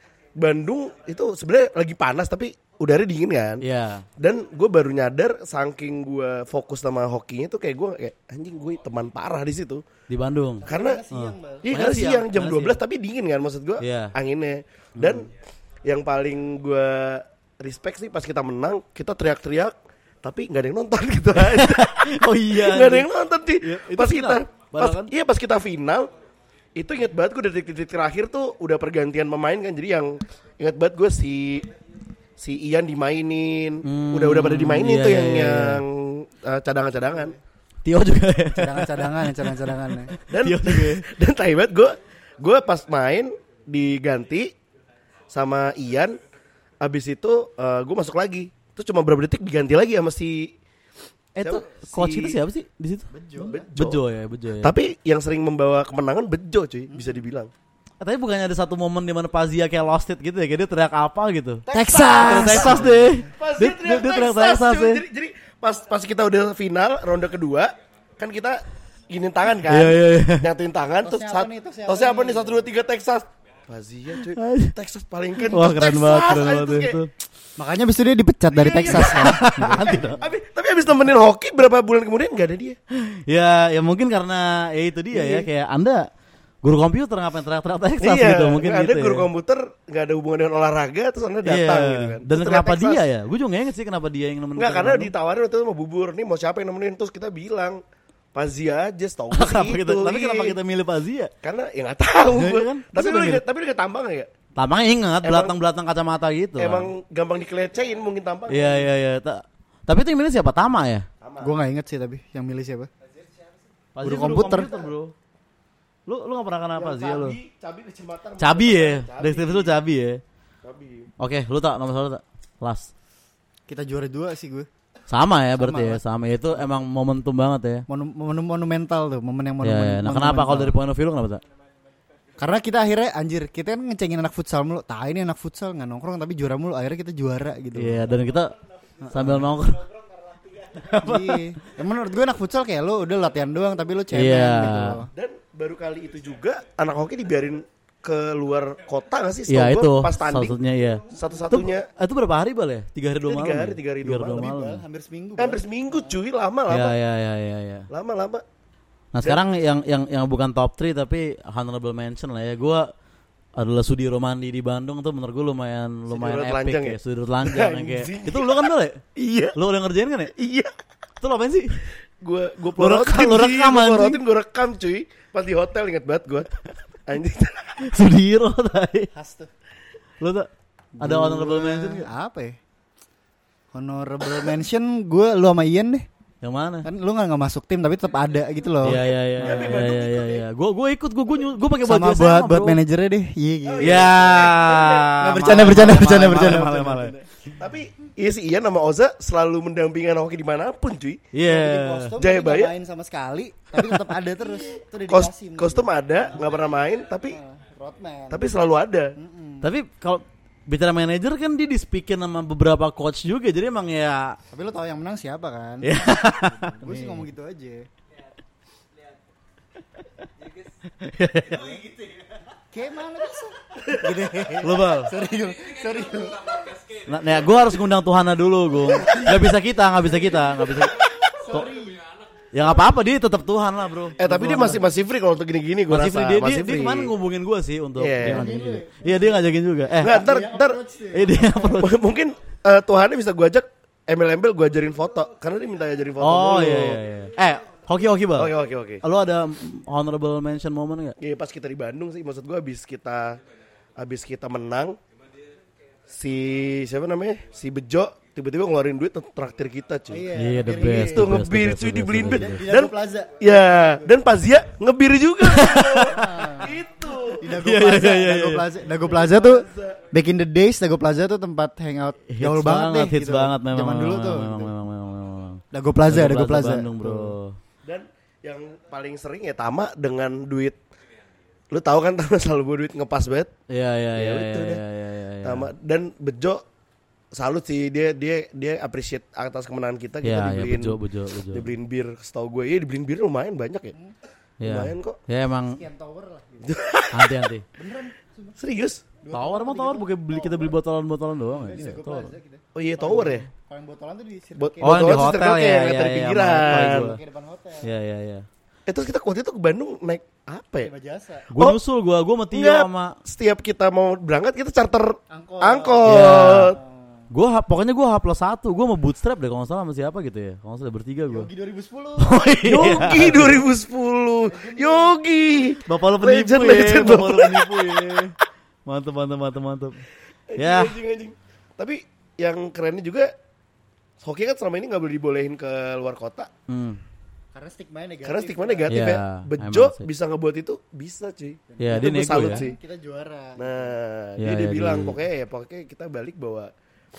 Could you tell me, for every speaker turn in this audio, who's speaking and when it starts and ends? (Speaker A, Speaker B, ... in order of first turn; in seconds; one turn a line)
Speaker A: 0.3-3.6
Speaker B: 3.6-4.0
Speaker A: 4.2-9.8
Speaker B: 10.1-12.8
Speaker C: 10.6-11.7
Speaker A: 10.7-11.1
Speaker A: 11.6-15.3
Speaker B: 13.8-14.1
Speaker B: 15.0-15.2
Speaker A: 15.8-26.1
Speaker B: 21.4-23.1
Speaker B: 23.6-25.1
Speaker A: 26.8-31.7
Speaker A: 32.4-37.4
Speaker B: 33.8-35.8
Speaker B: 37.8-41.1
Speaker C: 38.5-40.1
Speaker A: 40.3-44.5
Speaker A: 45.3-46.2
Speaker A: 46.8-50.5
Speaker B: 51.4-53.1
Speaker A: 51.4-52.4
Speaker C: 53.1-53.7
Speaker A: 53.4-54.0
Speaker B: 53.7-54.7
Speaker A: 54.6-57.5
Speaker C: 56.9-57.2
Speaker B: 58.0-61.6
Speaker A: 61.6-77.0
Speaker C: 61.7-63.3
Speaker B: 62.2-65.0
Speaker B: 69.7-70.5
Speaker C: 71.0-72.7
Speaker B: 74.2-74.7
Speaker B: 75.4-77.1
Speaker C: 77.6-80.2
Speaker A: 78.5-82.8
Speaker B: 78.9-80.2
Speaker B: 82.9-86.1
Speaker A: 85.1-85.5
Speaker B: 86.6-89.3
Speaker A: 88.0-93.1
Speaker B: 91.4-95.1
Speaker A: 94.6-97.8
Speaker A: 98.3-100.6
Speaker B: 99.3-101.3
Speaker A: 101.4-104.3
Speaker B: 102.3-103.4
Speaker B: 104.6-106.9
Speaker A: 105.2-105.5
Speaker A: 106.6-108.9
Speaker B: 108.5-111.0
Speaker A: 111.2-111.5
Speaker C: 111.4-112.9
Speaker B: 113.9-115.1
Speaker C: 114.0-114.8
Speaker B: 116.1-117.4
Speaker A: 116.8-119.8
Speaker B: 118.4-120.2
Speaker A: 120.6-121.1
Speaker B: 121.2-122.9
Speaker C: 123.7-124.7
Speaker B: 125.1-127.8
Speaker C: 125.5-126.0
Speaker C: 127.9-130.8
Speaker B: 129.6-131.4
Speaker C: 132.4-138.0
Speaker B: 137.7-138.5
Speaker C: 139.0-139.5
Speaker B: 139.1-139.8
Speaker B: 140.7-141.5
Speaker C: 141.0-145.1
Speaker B: 144.1-145.0
Speaker A: 145.1-150.6
Speaker B: 149.5-154.8
Speaker A: 151.1-151.9
Speaker A: 153.2-154.6
Speaker C: 154.3-156.2
Speaker A: 155.4-156.9
Speaker B: 156.7-157.9
Speaker A: 157.9-158.4
Speaker B: 159.1-162.9
Speaker B: 163.6-169.0
Speaker A: 166.1-169.6
Speaker B: 169.5-170.3
Speaker A: 170.3-170.7
Speaker B: 171.2-171.8
Speaker A: 172.2-177.9
Speaker B: 172.8-174.2
Speaker B: 177.8-179.1
Speaker C: 179.1-179.5
Speaker B: 180.2-182.1
Speaker C: 181.0-182.6
Speaker C: 183.7-186.1
Speaker B: 186.4-186.9
Speaker C: 186.8-189.8
Speaker B: 188.8-192.8
Speaker A: 189.4-190.4
Speaker C: 191.8-194.3
Speaker A: 193.7-196.1
Speaker B: 193.8-197.2
Speaker C: 195.2-197.2
Speaker A: 197.6-201.2
Speaker B: 201.3-202.2
Speaker C: 201.4-206.4
Speaker A: 202.2-202.7
Speaker A: 204.4-207.4
Speaker C: 207.2-208.4
Speaker A: 208.3-209.1
Speaker C: 209.2-209.7
Speaker B: 209.6-214.4
Speaker C: 214.5-217.9
Speaker B: 215.8-217.2
Speaker B: 221.0-221.9
Speaker C: 222.7-226.8
Speaker B: 224.6-225.1
Speaker B: 227.0-231.7
Speaker C: 229.0-229.4
Speaker C: 231.3-232.0
Speaker B: 232.5-234.8
Speaker A: 234.2-237.1
Speaker B: 235.9-240.2
Speaker A: 238.0-238.5
Speaker C: 238.2-241.8
Speaker A: 240.0-240.8
Speaker B: 241.1-241.9
Speaker A: 241.8-247.0
Speaker B: 246.2-251.2
Speaker A: 248.3-249.0
Speaker A: 251.2-253.4
Speaker A: 254.0-255.0
Speaker A: 256.1-267.5
Speaker C: 260.1-261.4
Speaker B: 260.3-262.6
Speaker C: 262.2-264.2
Speaker B: 265.4-266.4
Speaker C: 266.1-266.8
Speaker C: 267.3-274.7
Speaker B: 267.5-268.7
Speaker A: 268.9-270.0
Speaker B: 272.3-277.6
Speaker C: 275.7-277.3
Speaker A: 277.8-280.8
Speaker A: 281.7-283.5
Speaker B: 283.7-285.7
Speaker A: 284.1-284.8
Speaker A: 285.4-286.6
Speaker A: 287.3-291.0
Speaker B: 290.2-291.7
Speaker A: 291.5-293.9
Speaker B: 294.6-295.8
Speaker A: 294.6-295.2
Speaker C: 295.7-296.8
Speaker A: 296.6-297.5
Speaker B: 297.1-297.6
Speaker C: 297.8-298.6
Speaker A: 298.6-299.0
Speaker C: 299.2-300.8
Speaker B: 299.3-302.3
Speaker C: 301.5-305.4
Speaker A: 302.7-303.5
Speaker A: 304.6-307.1
Speaker B: 304.8-307.2
Speaker C: 306.6-307.9
Speaker B: 307.8-308.4
Speaker A: 308.9-310.9
Speaker C: 310.8-311.5
Speaker B: 311.5-313.2
Speaker A: 312.5-316.8
Speaker C: 315.3-317.3
Speaker B: 316.0-316.7
Speaker B: 317.3-321.5
Speaker C: 321.3-322.4
Speaker B: 322.2-323.6
Speaker A: 322.6-328.2
Speaker C: 322.9-323.7
Speaker C: 324.5-325.2
Speaker B: 325.8-328.3
Speaker B: 328.9-330.0
Speaker A: 330.5-333.3
Speaker B: 330.6-331.0
Speaker A: 334.2-336.5
Speaker B: 336.7-337.0
Speaker C: 337.5-338.9
Speaker A: 338.2-342.8
Speaker B: 338.9-340.1
Speaker C: 341.8-343.9
Speaker B: 341.8-342.6
Speaker A: 343.6-346.7
Speaker B: 344.4-345.2